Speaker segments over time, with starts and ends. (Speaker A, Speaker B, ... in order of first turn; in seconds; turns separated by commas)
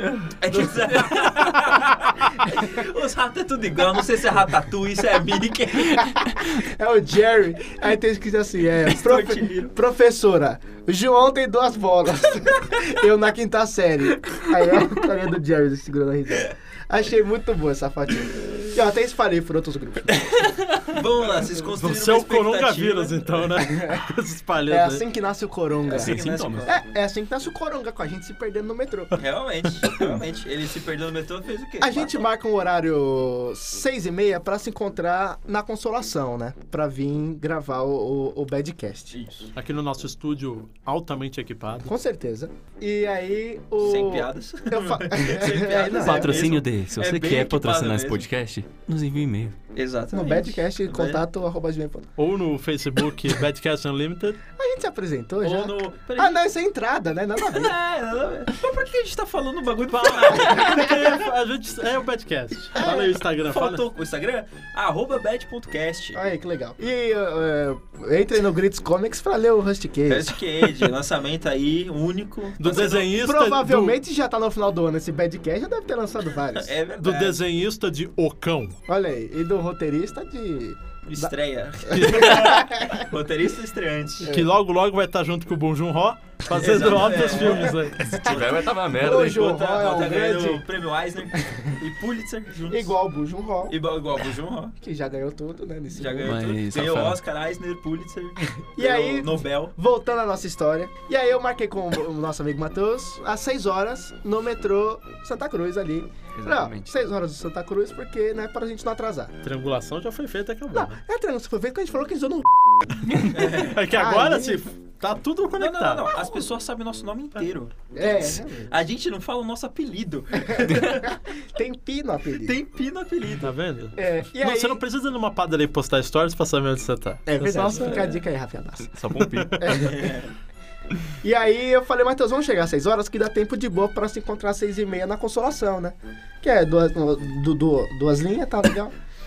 Speaker A: 0.2-6.1, Speaker B: 2.4-2.8, Speaker B: 5.9-20.6, Speaker A: 8.8-9.7, Speaker A: 20.8-23.3, Speaker C: 21.8-25.0, Speaker B: 23.6-24.0, Speaker B: 24.7-29.2, Speaker A: 25.9-26.8, Speaker D: 25.9-26.7, Speaker A: 29.1-32.2, Speaker B: 31.8-39.2, Speaker A: 39.1-39.5, Speaker C: 39.5-41.9, Speaker B: 41.8-46.5, Speaker A: 43.8-48.2, Speaker D: 45.9-49.6, Speaker A: 49.7-51.2, Speaker B: 50.1-52.1, Speaker C: 52.2-54.4, Speaker B: 54.6-57.7, Speaker A: 55.4-56.4, Speaker A: 57.4-61.2, Speaker C: 59.9-63.8, Speaker B: 62.8-63.2, Speaker A: 62.8-66.2, Speaker B: 66.1-70.4, Speaker A: 70.1-73.2, Speaker C: 72.6-74.0, Speaker B: 72.7-76.8, Speaker A: 76.5-77.4, Speaker C: 77.0-78.8, Speaker B: 78.9-81.3, Speaker A: 81.1-84.3, Speaker B: 81.9-83.0, Speaker C: 81.9-82.3, Speaker B: 84.2-84.5, Speaker C: 84.2-88.0, Speaker A: 86.5-93.0, Speaker B: 86.7-90.6, Speaker D: 88.0-89.6, Speaker B: 91.4-91.7, Speaker B: 92.7-93.8, Speaker A: 93.7-94.7, Speaker B: 94.8-96.4, Speaker A: 95.9-99.7, Speaker D: 96.2-97.2, Speaker B: 98.8-109.3, Speaker D: 106.3-107.0, Speaker C: 109.4-111.0, Speaker B: 110.7-114.7, Speaker A: 113.3-113.8, Speaker C: 113.4-116.1, Speaker A: 115.6-121.0, Speaker B: 116.1-116.4, Speaker B: 117.9-118.8, Speaker B: 120.3-122.5, Speaker D: 120.6-121.1, Speaker A: 122.4-123.5, Speaker C: 123.4-128.1, Speaker B: 124.0-124.8, Speaker B: 127.3-128.9, Speaker D: 128.8-129.8, Speaker B: 129.6-130.1, Speaker A: 129.7-130.3, Speaker B: 131.2-138.9